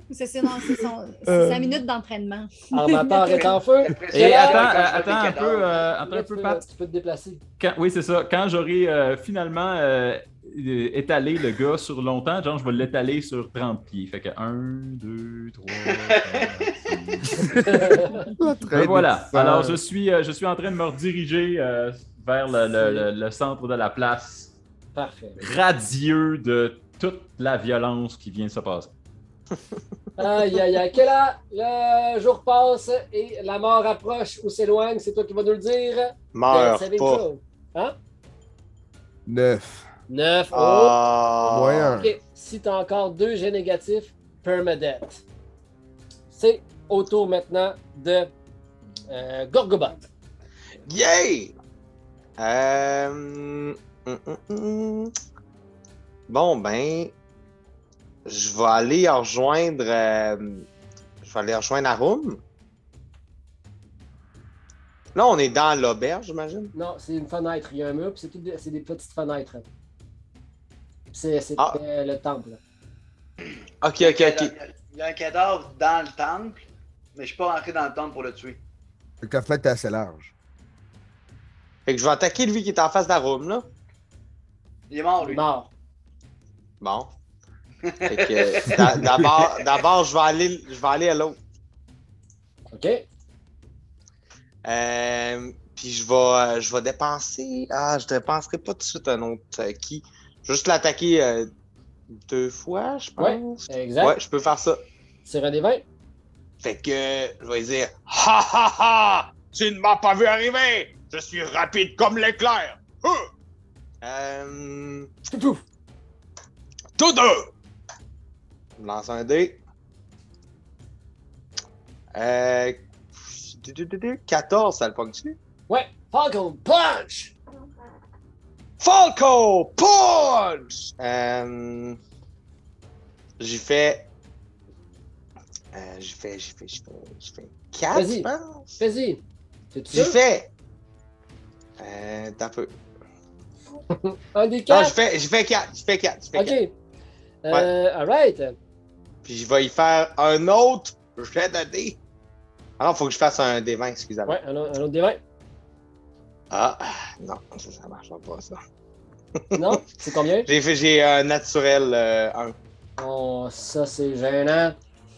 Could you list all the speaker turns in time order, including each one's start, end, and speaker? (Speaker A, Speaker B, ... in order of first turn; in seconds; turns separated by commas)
Speaker A: 0.1-3.5, Speaker B: 1.3-1.8, Speaker C: 2.7-4.7, Speaker D: 3.4-5.9, Speaker E: 4.1-6.6, Speaker C: 6.1-7.4, Speaker E: 7.6-24.6, Speaker D: 15.9-16.7, Speaker C: 17.6-18.2, Speaker B: 18.4-19.8, Speaker C: 22.7-23.1, Speaker C: 24.9-25.4, Speaker E: 25.4-28.9, Speaker C: 30.2-38.0, Speaker F: 36.3-37.2, Speaker B: 39.3-39.9, Speaker C: 40.1-41.0, Speaker F: 40.5-42.0, Speaker B: 41.4-42.1, Speaker C: 42.0-45.2, Speaker C: 46.3-48.3, Speaker C: 49.1-50.0, Speaker F: 50.9-51.5, Speaker F: 52.4-55.1, Speaker F: 56.3-57.1, Speaker F: 58.3-60.7, Speaker F: 61.2-62.4, Speaker F: 65.2-66.7, Speaker C: 66.7-69.7, Speaker C: 71.1-72.6, Speaker F: 73.8-74.5, Speaker D: 74.0-76.6, Speaker D: 77.2-78.6, Speaker B: 79.2-80.3, Speaker F: 81.9-83.7, Speaker D: 84.9-85.4, Speaker C: 85.2-85.7, Speaker F: 86.8-87.1, Speaker D: 87.9-88.8, Speaker F: 88.1-91.4, Speaker C: 92.7-93.1, Speaker F: 94.6-101.5, Speaker F: 102.2-104.8, Speaker C: 103.2-104.2, Speaker C: 105.2-105.8, Speaker F: 106.6-113.3, Speaker F: 114.0-115.1, Speaker C: 115.3-115.6, Speaker F: 117.0-117.5, Speaker F: 118.8-119.6, Speaker F: 122.1-125.4, Speaker C: 125.7-127.3, Speaker F: 128.8-132.0, Speaker F: 133.4-134.1, Speaker F: 135.7-138.8, Speaker C: 137.9-138.3, Speaker C: 138.8-139.2, Speaker C: 139.7-140.2, Speaker F: 139.9-140.5, Speaker F: 141.8-142.7, Speaker C: 144.0-145.0, Speaker F: 144.7-146.6, Speaker C: 146.3-146.7, Speaker C: 147.4-148.6, Speaker F: 149.2-152.0, Speaker F: 152.8-154.4, Speaker C: 154.3-155.2, Speaker F: 156.5-158.6, Speaker F: 159.5-159.8, Speaker C: 159.5-160.5, Speaker F: 160.4-162.6, Speaker C: 163.0-164.8